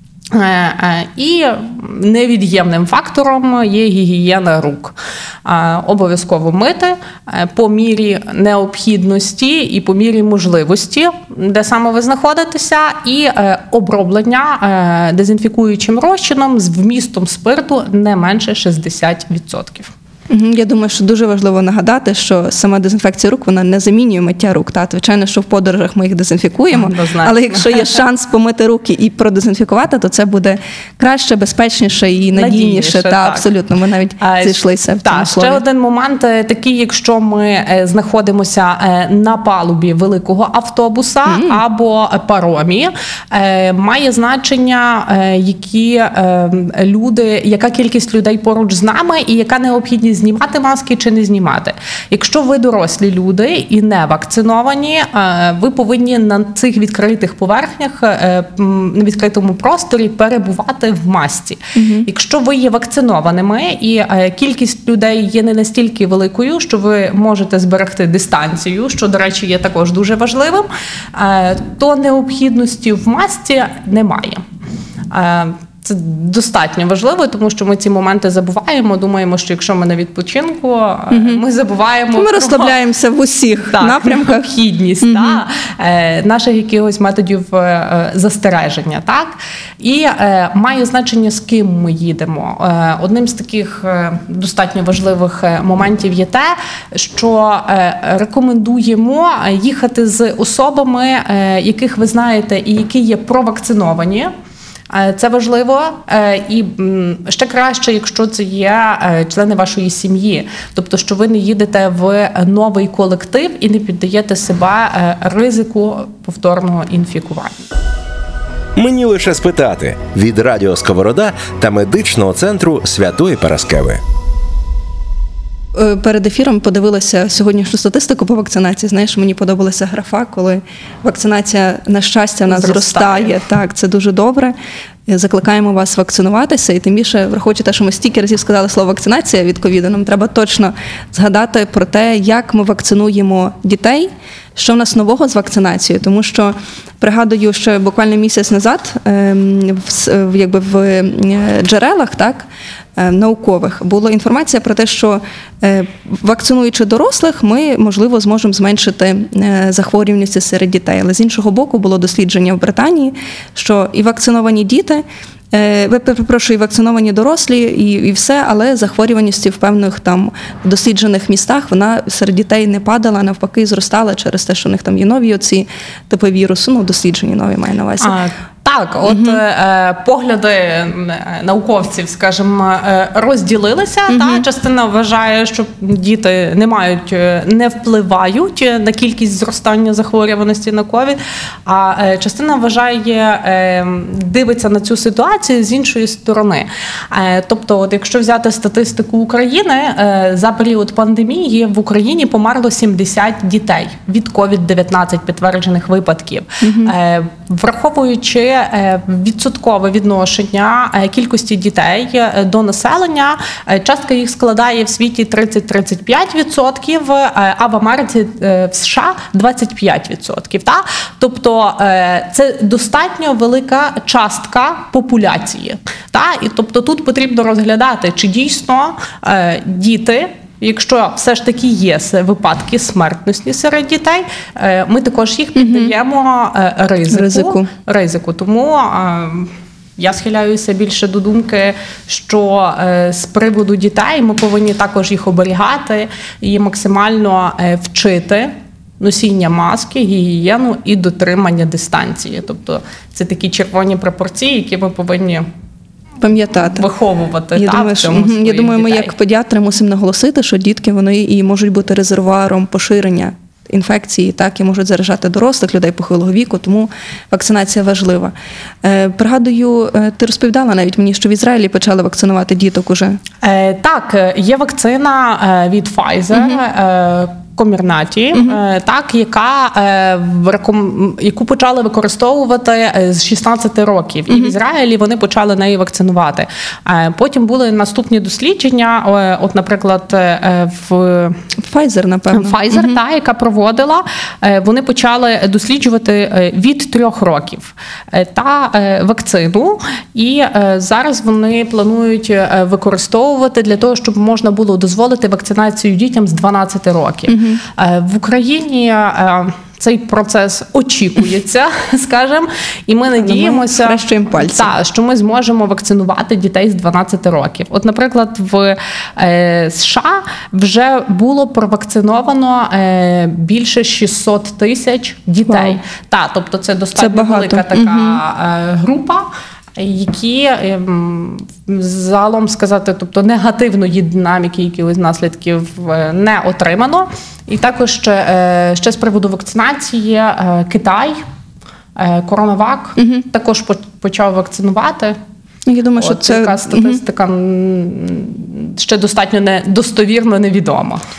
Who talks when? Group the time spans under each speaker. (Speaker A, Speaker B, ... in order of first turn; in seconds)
Speaker A: 0.3-19.9, 26.7-28.0, 32.4-33.5, 34.2-74.4, 75.1-82.7, 83.7-104.3, 104.9-117.6, 132.5-133.4, 178.0-255.4, 256.6-259.1, 273.4-291.4, 292.3-341.2, 341.9-345.2, 346.0-351.0
Speaker B: 20.3-35.6, 41.2-41.6, 61.7-62.1, 81.1-81.4, 82.1-84.5, 85.0-85.4, 125.7-134.5, 135.1-178.2, 179.0-179.4, 184.1-184.4, 206.6-206.9, 235.6-235.9, 237.1-237.7, 256.2-256.9, 257.6-273.2, 276.3-276.6, 284.3-284.5, 291.6-293.0, 307.3-307.6, 313.1-314.7, 325.5-325.8, 326.9-328.2, 343.0-343.2, 345.7-347.0
Speaker C: 118.8-124.0